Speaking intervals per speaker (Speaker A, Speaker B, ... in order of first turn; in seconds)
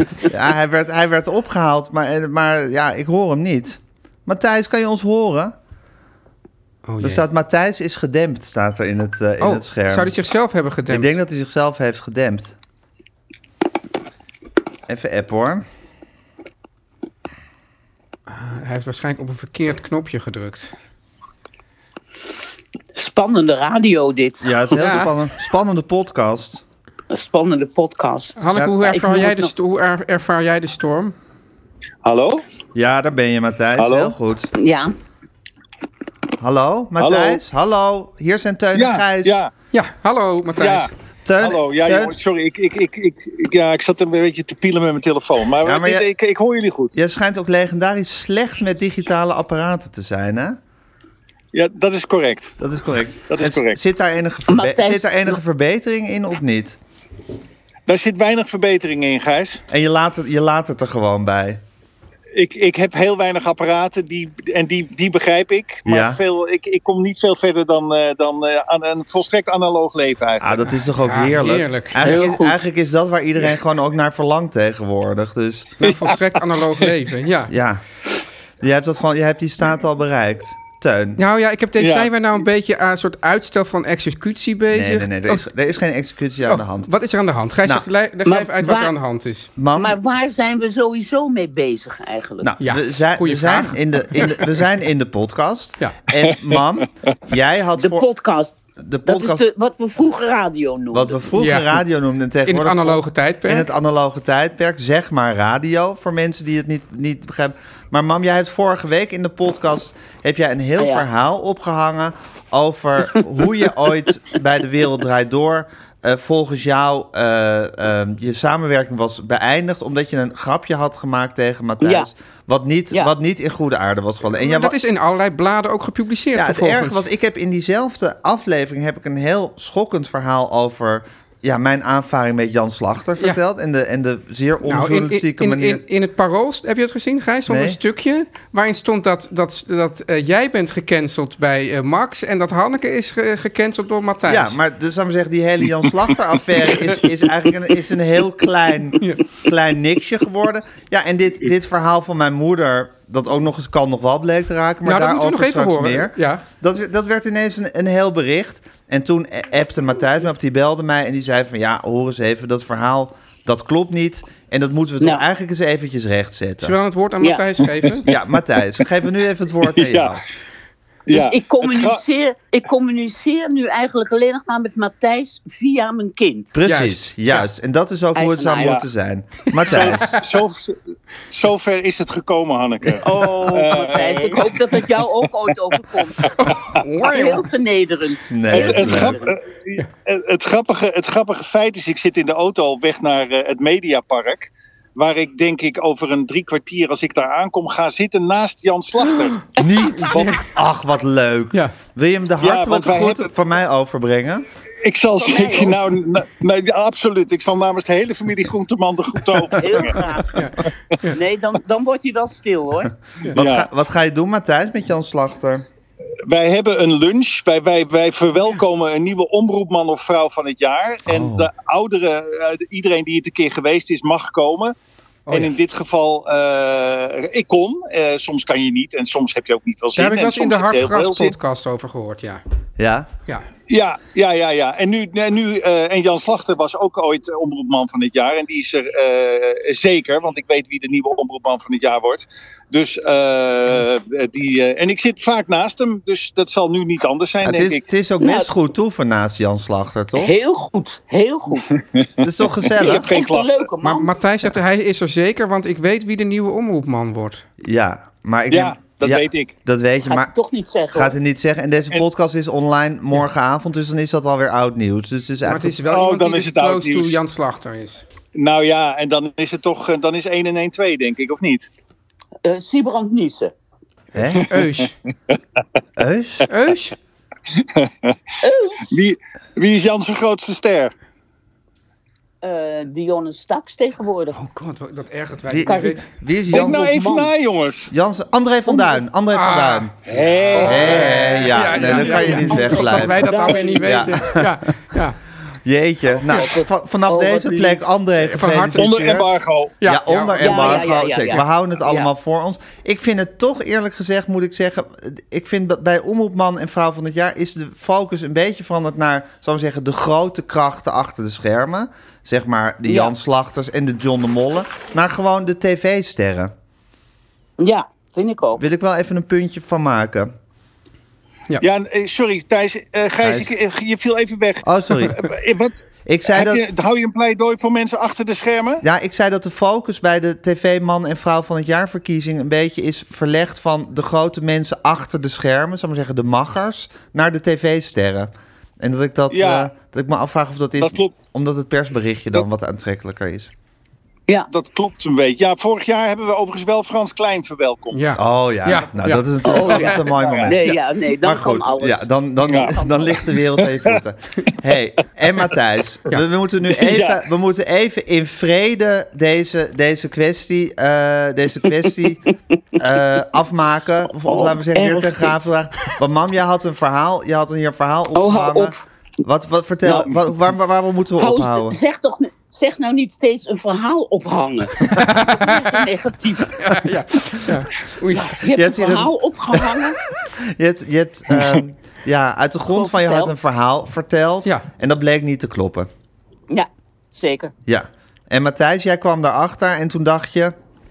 Speaker A: 0.2-5.5, 7.0-10.1, 10.9-12.5, 14.9-15.6, 24.4-26.6, 32.7-34.5, 36.4-39.4, 41.2-42.1, 45.6-46.1, 46.9-50.6, 52.6-56.8, 59.7-61.6, 65.8-66.2, 70.4-75.8, 77.5-77.8, 78.6-81.2, 84.7-86.9, 89.6-90.0, 92.4-98.0, 98.8-99.5, 100.9-124.8, 126.3-135.8, 137.5-137.8, 144.3-166.7, 168.0-170.2, 176.5-180.1, 188.3-189.2, 199.6-204.5, 213.3-215.7, 221.1-221.5, 232.8-233.1, 247.4-250.3, 252.2-253.1, 257.6-260.3, 260.9-265.7, 274.1-274.5, 276.0-276.5, 285.5-286.9, 287.9-289.9, 290.6-294.6, 295.6-299.3, 299.8-316.5, 318.6-320.3, 323.2-323.5, 324.6-325.2, 326.1-326.6, 328.8-343.5, 348.1-350.6, 351.2-362.2, 362.8-371.8, 378.5-379.1, 380.4-385.9, 387.7-390.5
Speaker B: 6.9-7.2, 9.4-11.2, 18.3-20.7, 24.7-25.1, 28.4-31.1, 39.7-40.9, 71.0-72.2, 75.8-77.5, 81.2-85.4, 86.5-89.5, 92.6-94.4, 101.3-101.7, 102.5-103.7, 124.4-127.0, 134.6-144.6, 149.0-149.2, 154.8-156.4, 166.6-168.1, 176.7-177.5, 179.7-180.0, 186.4-187.4, 199.9-200.4, 210.3-211.2, 225.3-225.5, 229.9-232.4, 253.8-257.4, 265.4-268.0, 274.4-274.9, 276.5-276.9, 284.3-286.1, 289.3-295.2, 298.2-298.9, 299.8-300.9, 347.9-350.1, 374.8-375.7, 376.6-378.4
Speaker C: 22.9-24.6, 27.1-29.5, 34.5-34.9, 54.5-55.4, 72.0-72.6, 88.2-88.9, 89.7-92.5, 97.8-101.2, 110.8-111.1, 121.8-122.1, 171.1-176.5, 178.1-178.8, 183.0-186.3, 187.0-189.3, 205.2-205.8, 209.5-210.3, 211.1-212.9, 248.2-248.5, 250.1-251.7, 252.8-254.1, 260.0-261.1, 272.4-273.5, 278.4-278.9, 282.4-284.4, 285.6-286.0, 286.6-287.3, 288.7-289.0, 291.6-294.1, 296.2-297.8, 300.4-302.1, 312.9-313.1, 317.6-318.6, 349.4-352.1, 352.6-353.1, 364.2-365.4, 368.1-368.8, 371.2-376.8, 378.1-380.0, 382.7-383.3, 386.5-387.5
Speaker D: 32.0-32.4, 33.8-34.1, 37.0-37.4, 38.7-39.5, 40.5-46.9, 51.5-52.5, 53.3-53.8, 57.9-59.6, 62.3-70.6, 75.8-76.1, 81.8-82.1, 169.8-170.2, 171.1-172.0, 179.7-180.8, 181.3-184.8, 188.5-199.4, 200.1-200.4, 202.4-203.3, 204.8-210.0, 213.3-213.7, 216.2-224.7, 225.3-231.3, 233.7-247.8, 251.7-252.1, 252.6-253.6, 258.5-259.5, 265.9-267.2, 268.3-271.7, 277.5-278.2, 278.9-280.9, 286.5-287.9, 290.0-291.4, 298.7-299.8, 321.6-325.7, 326.3-328.8, 339.3-339.7, 340.8-341.2, 344.5-348.1, 350.1-350.5, 352.5-352.7, 356.8-357.2